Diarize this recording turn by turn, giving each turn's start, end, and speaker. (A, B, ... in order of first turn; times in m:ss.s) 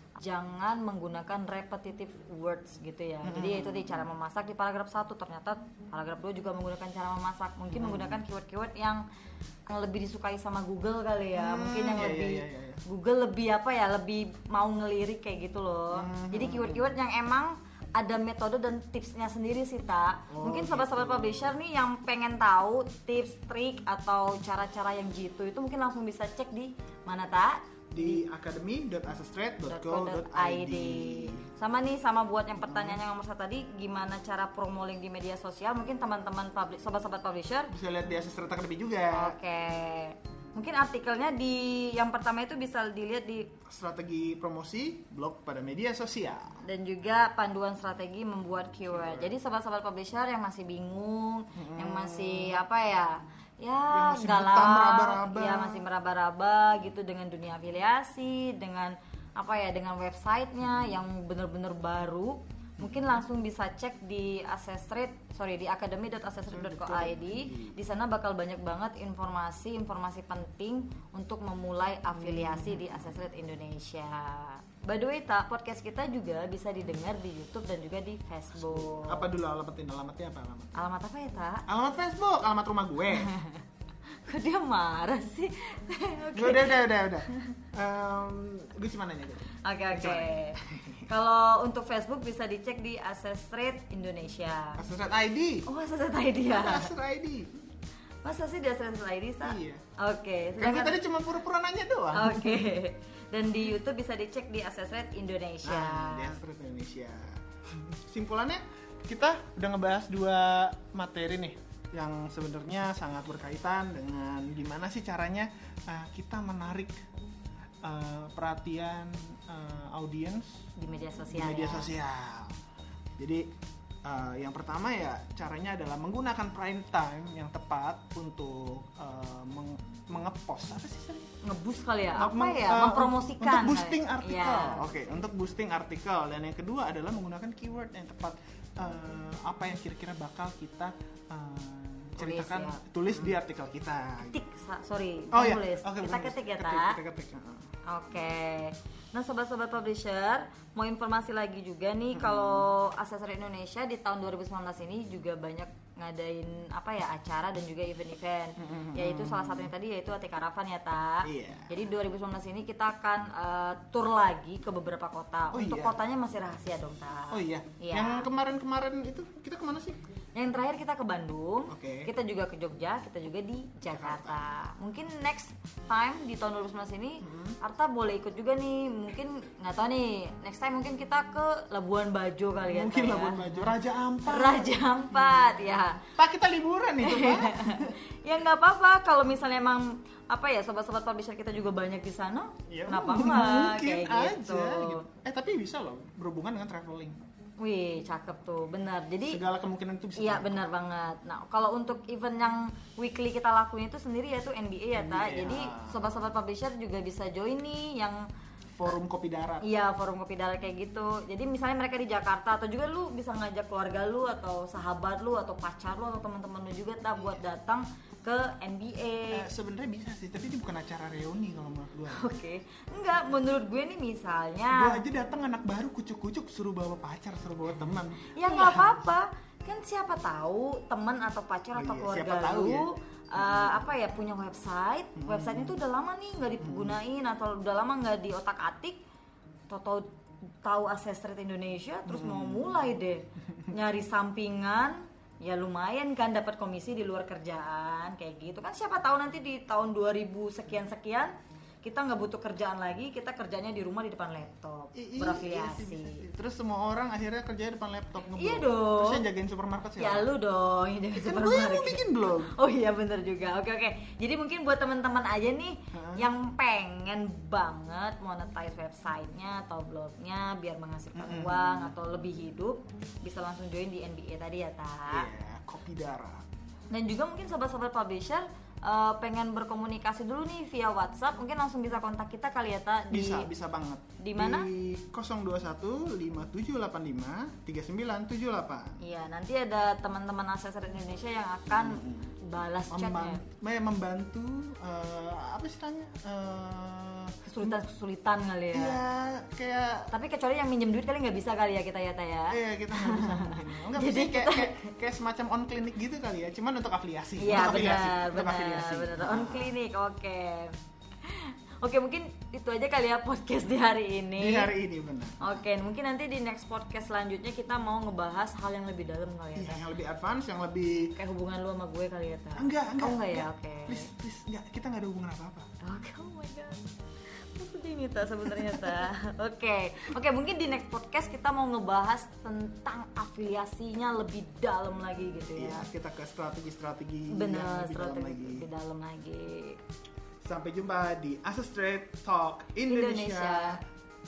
0:00.2-0:09.0 A
0:03.2-0:04.1 B
0:07.7-0:08.2 B
0:09.7-0:28.2 A
0:11.3-0:12.8 B
0:15.9-0:16.9 B
0:20.3-0:21.6 B
0:27.9-0:31.4 B
0:29.7-0:37.7 A
0:32.6-0:33.0 B
0:37.7-0:39.4 B
0:39.1-0:43.5 A
0:43.6-0:46.6 B
0:46.6-1:19.3 A
0:48.9-0:49.3 B
0:51.5-0:52.6 B
0:53.9-0:55.8 B
1:00.6-1:01.0 B
1:02.8-1:03.2 B
1:06.5-1:07.8 B
1:12.1-1:13.2 B
1:18.6-1:20.8 B
1:20.7-1:21.6 A
1:21.7-1:23.3 B
1:23.1-1:23.6 A
1:24.2-1:27.6 A
1:26.3-1:31.1 B
1:29.6-1:34.8 A
1:34.8-1:35.7 B
1:35.6-1:36.9 A
1:36.5-1:37.5 B
1:38.2-1:41.0 A
1:39.4-1:39.8 B
1:40.6-1:42.7 B
1:42.1-1:46.4 A
1:45.6-1:57.0 B
1:57.8-2:00.6 B
2:00.8-2:01.9 A
2:01.3-2:02.6 B
2:03.2-2:03.5 B
2:04.0-2:11.3 B
2:11.4-2:15.1 A
2:12.1-2:24.4 B
2:22.2-2:23.3 A
2:24.3-2:27.0 A
2:25.3-2:27.7 B
2:27.9-2:48.3 A
2:32.1-2:32.7 B
2:38.6-2:39.7 B
2:41.2-2:41.8 B
2:45.5-2:46.0 B
2:47.3-2:50.0 B
2:50.3-3:03.7 A
2:51.7-2:52.1 B
2:53.9-2:54.6 B
2:57.2-2:57.6 B
3:02.6-3:05.5 B
3:04.2-3:06.0 A
3:06.2-3:08.0 B
3:07.0-3:15.0 A
3:12.7-3:17.2 B
3:17.6-3:19.4 A
3:19.2-3:20.7 B
3:20.2-3:28.2 A
3:24.9-3:26.2 B
3:28.7-3:29.7 B
3:29.6-3:39.5 A
3:39.3-3:42.3 B
3:42.1-3:45.0 A
3:44.7-3:49.0 B
3:48.3-3:59.0 A
3:51.7-3:53.9 B
3:55.2-3:55.8 B
3:56.6-3:57.0 B
3:59.7-4:00.1 A
4:00.6-4:16.2 A
4:02.0-4:02.8 B
4:14.9-4:20.3 B
4:18.3-4:19.2 A
4:20.0-4:35.3 A
4:21.1-4:22.6 B
4:25.9-4:26.2 B
4:31.1-4:32.0 B
4:35.1-4:36.4 B
4:36.9-4:43.5 A
4:43.1-4:49.0 B
4:44.2-4:44.7 A
4:49.0-4:53.4 A
4:51.7-4:52.4 B
4:52.9-4:57.8 B
4:57.4-4:59.0 A
4:58.7-5:00.1 B
5:00.1-5:04.9 A
5:02.5-5:09.7 B
5:07.4-5:14.7 A
5:14.4-5:15.6 B
5:15.4-5:19.8 A
5:19.5-5:21.1 B
5:21.1-5:24.1 A
5:22.6-5:25.7 B
5:25.8-5:26.8 A
5:27.5-5:35.9 A
5:28.5-5:29.0 B
5:35.5-5:38.6 B
5:37.3-5:39.8 A
5:40.4-5:43.8 B
5:42.9-5:43.8 A